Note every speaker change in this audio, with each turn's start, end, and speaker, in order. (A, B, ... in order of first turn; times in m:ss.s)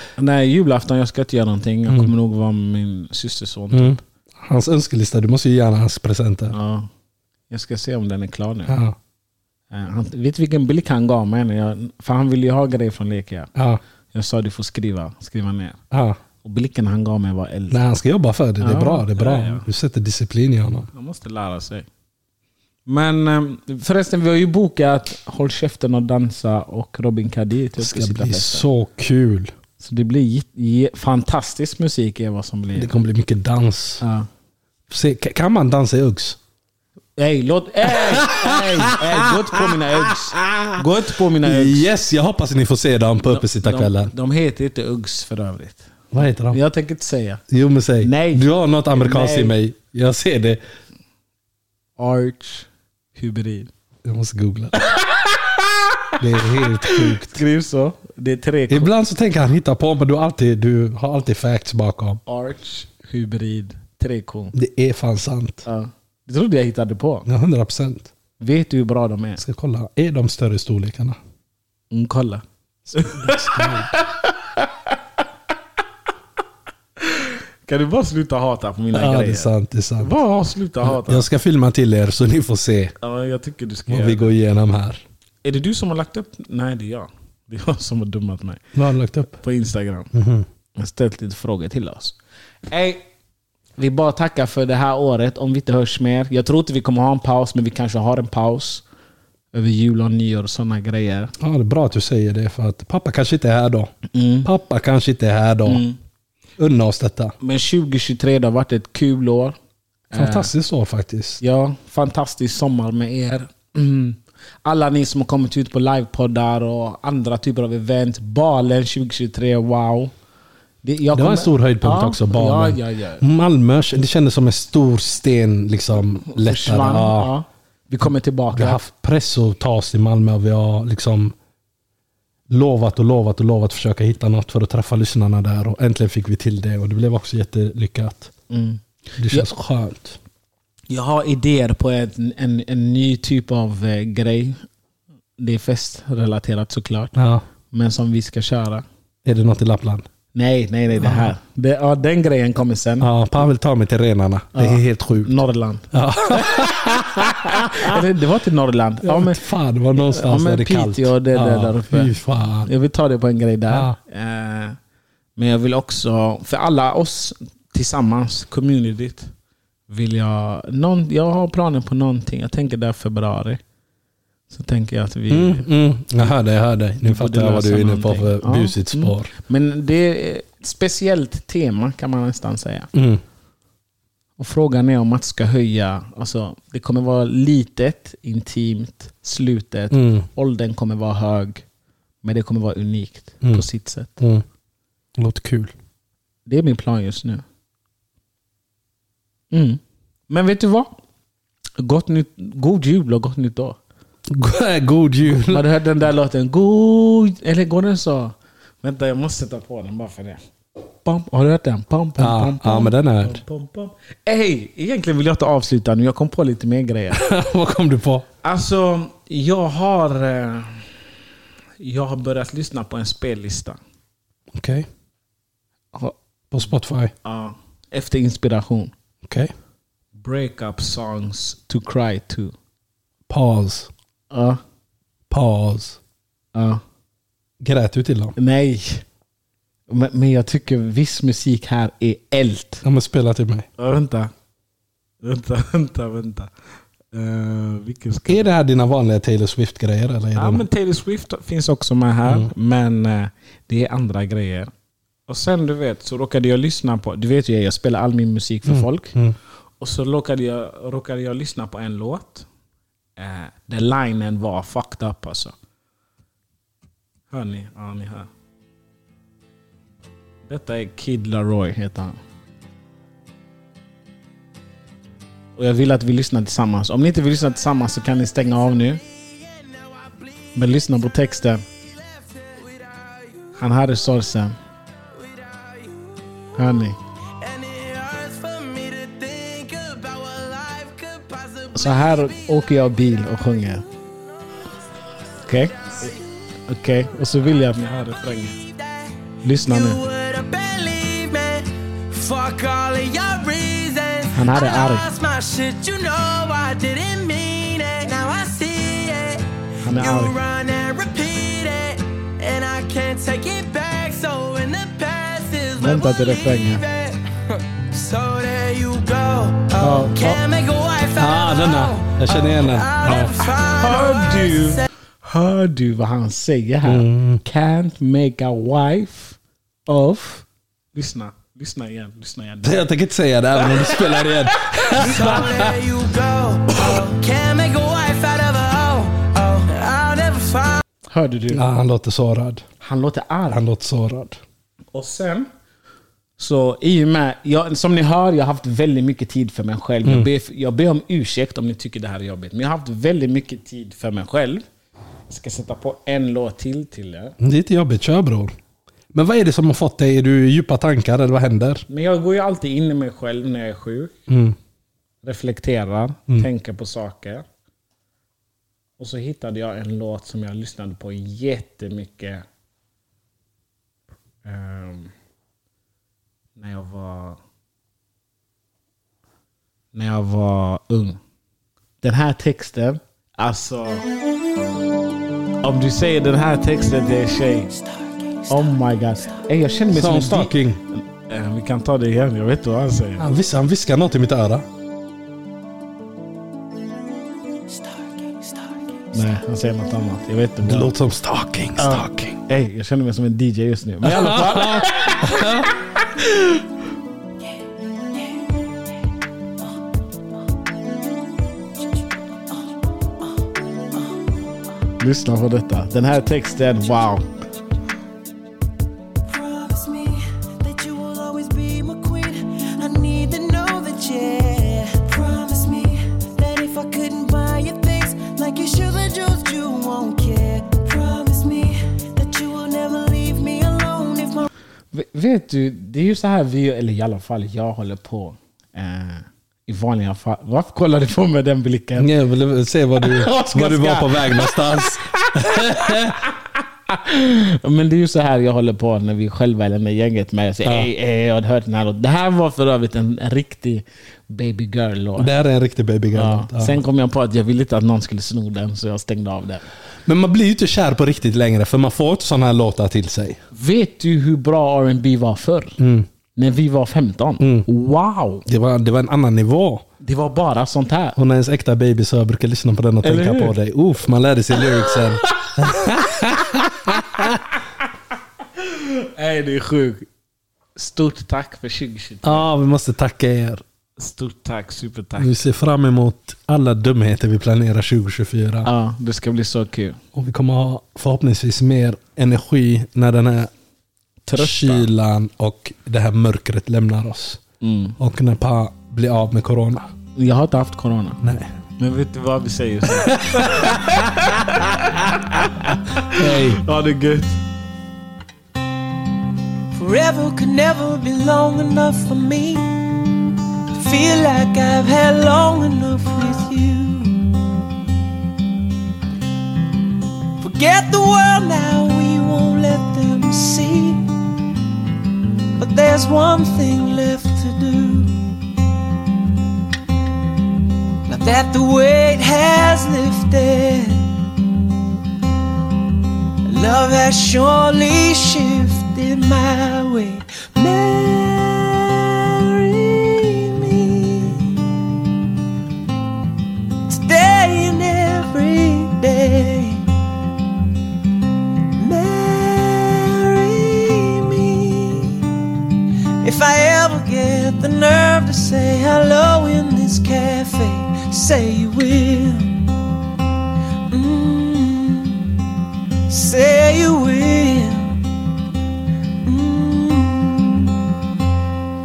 0:00.2-0:04.0 A
0:03.7-0:06.6 B
0:06.5-0:06.9 A
0:07.5-0:08.8 A
0:08.7-0:09.0 B
0:09.7-0:13.5 A
0:13.6-0:13.8 B
0:14.1-0:15.8 A
0:15.9-0:16.2 B
0:16.4-0:17.8 A
0:17.7-0:20.9 B
0:18.6-0:19.7 A
0:20.9-0:21.9 A
0:22.9-0:28.6 A
0:27.8-0:29.5 B
0:29.8-0:32.9 A
0:32.8-0:34.0 B
0:34.0-0:34.3 A
0:34.9-0:36.4 B
0:37.2-0:41.9 A
0:37.9-0:40.8 B
0:41.4-0:44.1 B
0:43.2-0:45.9 A
0:46.1-0:46.6 B
0:46.5-0:47.4 A
0:47.5-0:50.6 B
0:48.0-0:49.6 A
0:52.0-0:53.7 A
0:54.0-0:54.8 B
0:54.8-0:56.2 A
0:56.2-0:57.4 B
0:56.8-0:58.9 A
0:58.7-1:02.2 B
1:02.3-1:04.6 A
1:04.5-1:05.7 B
1:05.7-1:07.3 A
1:07.3-1:08.1 B
1:08.4-1:09.4 A
1:09.4-1:11.2 B
1:11.9-1:15.0 A
1:12.9-1:14.0 B
1:17.0-1:21.3 A
1:18.9-1:20.1 B
1:20.8-1:22.9 B
1:23.0-1:24.3 A
1:23.9-1:25.0 B
1:25.4-1:28.6 A
1:28.8-1:29.4 B
1:29.4-1:30.1 A
1:30.1-1:30.5 B
1:30.8-1:32.2 A
1:32.7-1:33.0 A
1:33.8-1:38.8 A
1:39.5-1:41.3 A
1:41.4-1:43.9 B
1:44.1-1:44.5 A
1:44.4-1:45.8 B
1:45.7-1:46.0 A
1:46.6-1:47.4 B
1:47.4-1:49.6 A
1:50.1-1:50.5 A
1:50.1-1:51.4 B
1:51.4-2:00.1 A
2:00.8-2:03.2 A
2:01.1-2:07.3 B
2:06.2-2:08.8 A
2:08.5-2:11.4 B
2:12.5-2:18.3 B
2:18.5-2:19.5 A
2:19.2-2:20.2 B
2:20.9-2:24.6 A
2:25.4-2:27.2 A
2:27.2-2:27.4 B
2:27.7-2:28.8 A
2:29.2-2:30.1 B
2:30.3-2:33.1 A
2:31.0-2:31.3 B
2:33.0-2:35.3 B
2:34.6-2:36.6 A
2:35.9-2:38.0 B
2:37.4-2:39.4 A
2:39.0-2:42.7 B
2:40.0-2:42.2 A
2:42.7-2:44.8 A
2:43.7-2:44.0 B
2:45.4-2:49.3 A
2:49.9-2:53.6 A
2:54.5-2:55.7 A
2:55.3-2:59.3 B
2:57.0-3:02.9 A
3:02.9-3:03.2 B
3:04.4-3:11.6 A
3:09.9-3:10.3 B
3:12.2-3:14.2 A
3:14.2-3:14.4 B
3:15.2-3:15.7 B
3:16.5-3:17.4 A
3:19.5-3:20.9 A
3:21.8-3:23.8 A
3:24.3-3:25.7 B
3:25.3-3:30.4 A
3:31.0-3:37.2 A
3:32.2-3:33.4 B
3:37.1-3:38.3 B
3:38.4-3:40.9 A
3:41.8-3:43.8 A
3:44.5-3:44.9 B
3:46.5-3:47.1 B
3:47.2-3:48.9 A
3:49.2-3:49.5 B
3:50.2-3:52.5 A
3:53.3-3:53.9 B
3:54.3-3:54.6 A
3:55.3-3:56.0 B
3:56.5-3:56.8 A
3:57.6-3:58.4 B
3:58.4-3:59.0 A
3:59.9-4:02.8 A
4:02.8-4:03.7 B
4:03.8-4:04.3 A
4:05.2-4:06.5 A
4:07.1-4:08.5 A
4:08.3-4:10.6 B
4:10.4-4:14.7 A
4:12.3-4:12.5 B
4:15.3-4:19.2 A
4:18.7-4:19.4 B
4:19.8-4:22.5 A
4:23.2-4:25.5 A
4:27.3-4:28.3 A
4:30.5-4:32.2 A
4:35.6-4:39.0 A
4:39.2-4:40.6 C
4:40.6-4:41.6 A
4:41.8-4:43.5 C
4:43.6-4:44.6 A
4:45.2-4:46.5 C
4:46.6-4:47.0 A
4:47.3-4:52.3 C
4:51.8-4:53.8 A
4:55.4-4:56.1 A
4:55.9-4:56.2 C
4:56.7-4:58.6 A
4:58.3-5:24.8 C
4:59.4-5:00.0 A
5:04.3-5:05.1 A
5:09.8-5:10.4 A
5:15.8-5:16.8 A
5:19.8-5:20.4 A
5:21.2-5:23.4 B
5:23.6-5:32.9 A
5:26.8-5:27.4 B
5:32.6-5:35.8 B
5:33.6-5:34.3 A
5:34.9-5:40.8 C
5:35.0-5:35.5 A
5:36.7-5:37.0 B
5:41.1-5:41.6 A
5:41.5-5:42.6 B
5:42.8-5:43.6 A
5:43.5-5:44.4 B
5:44.9-5:45.5 A
5:46.4-5:54.6 A
5:55.3-5:57.4 A
5:57.4-5:58.5 B
5:59.1-6:01.8 B
6:01.9-6:04.2 A
6:04.3-6:04.6 B
6:05.2-6:07.4 A
6:09.0-6:12.5 A
6:14.4-6:15.1 A
6:16.6-6:17.4 A
6:19.9-6:21.2 A
6:22.0-6:24.0 A
6:25.6-6:27.7 A
6:27.8-6:28.7 C
6:28.5-6:33.3 A
6:29.9-6:30.8 B
6:33.2-6:34.6 B
6:37.7-6:39.1 C
6:39.1-6:40.9 A
6:40.6-6:42.4 B
6:41.8-6:45.5 A
6:44.0-6:45.8 B
6:55.0-6:57.3 A
6:59.3-7:14.5 C
7:14.9-7:22.1 A
7:22.0-7:26.2 B
7:23.0-7:35.3 A
7:30.6-7:30.9 B
7:35.2-7:36.8 B
7:36.1-7:39.7 A
7:40.1-7:43.4 B
7:43.5-7:45.8 A
7:45.8-7:46.1 B
7:46.4-7:48.4 A
7:47.4-7:47.7 B
7:48.4-7:49.8 B
7:50.0-7:51.2 A
7:51.2-7:57.4 B
7:53.0-7:53.5 A
7:54.8-7:55.8 A
7:58.6-8:00.1 A
8:00.8-8:02.5 A
8:02.2-8:03.6 B
8:04.0-8:05.3 A
8:05.2-8:08.7 B
8:08.6-8:10.0 A
8:10.2-8:13.5 B
8:14.3-8:14.9 A
8:14.4-8:17.4 B
8:17.6-8:18.0 A
8:18.0-8:19.9 B
8:20.2-8:21.2 A
8:21.2-8:21.5 B
8:21.8-8:27.4 A
8:22.9-8:24.1 B
8:26.0-8:26.6 B
8:29.7-8:33.1 C
8:33.8-8:37.3 C
8:40.4-8:44.1 C
8:45.6-8:48.2 C
8:51.1-8:54.2 C
8:56.5-9:04.6 C
9:06.9-9:09.9 C
9:11.8-9:15.3 C
9:16.2-9:22.7 C
9:23.9-9:25.3 C
9:26.1-9:28.0 C
9:29.2-9:30.8 C